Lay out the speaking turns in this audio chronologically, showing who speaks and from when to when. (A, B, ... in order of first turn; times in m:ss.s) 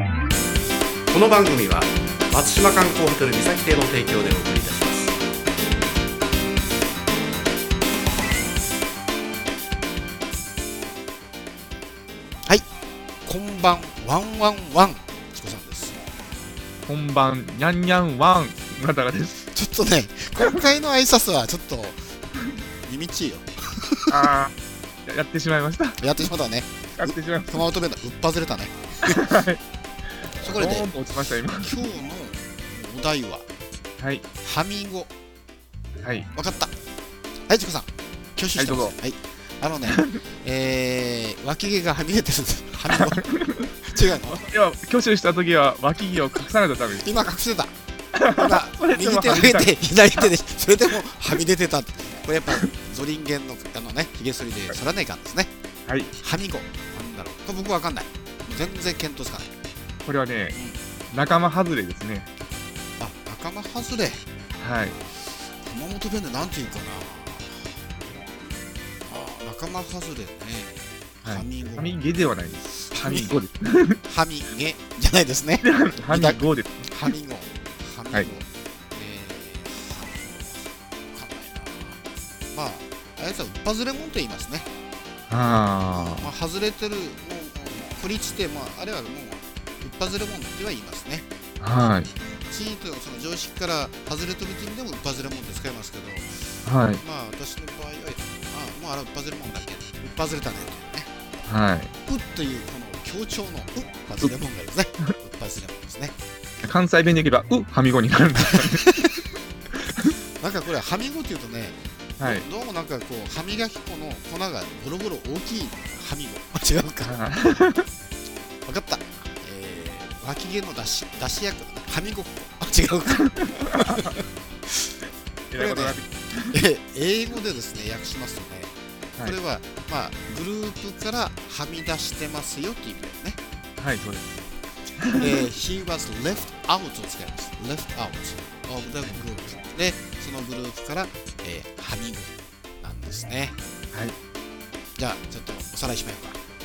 0:01.1-0:05.1 A
0:13.2-0:16.0 A
0:16.8-0:19.3 B
0:19.5-0:22.0 A
0:22.8-0:24.2 A
0:24.1-0:24.5 B
0:25.1-0:26.1 B
0:26.0-0:29.3 A
0:27.0-0:27.6 B
0:29.0-0:29.6 B
0:30.2-0:31.7 B
0:30.4-0:30.9 A
0:31.6-0:33.4 A
0:34.4-0:35.1 A
0:36.0-0:36.3 B
0:36.3-0:36.7 A
0:37.5-0:43.3 A
0:38.6-0:38.9 B
0:39.8-0:40.2 B
0:42.9-0:47.1 B
0:43.8-0:44.4 A
0:46.9-0:47.7 A
0:48.1-0:50.3 B
0:48.3-0:55.5 A
0:55.9-0:56.1 B
0:56.2-0:59.5 A
1:00.0-1:00.6 B
1:00.5-1:00.8 A
1:01.1-1:02.3 B
1:03.0-1:04.2 A
1:04.6-1:05.0 B
1:05.3-1:07.8 A
1:09.0-1:12.0 A
1:11.2-1:14.0 B
1:12.7-1:13.4 A
1:14.1-1:22.0 A
1:15.6-1:16.9 B
1:22.5-1:24.7 A
1:25.3-1:26.3 B
1:25.9-1:31.3 A
1:31.6-1:32.1 B
1:32.2-1:41.1 A
1:36.6-1:37.0 B
1:41.5-1:41.9 B
1:42.0-1:46.1 A
1:46.6-1:49.0 B
1:48.4-1:49.1 A
1:50.4-1:57.2 A
1:52.2-1:52.4 B
1:57.0-1:57.9 B
1:58.6-2:04.2 A
2:03.6-2:04.1 B
2:05.5-2:06.6 B
2:05.5-2:13.4 A
2:13.8-2:14.4 B
2:15.0-2:15.4 B
2:15.1-2:23.6 A
2:25.0-2:26.4 A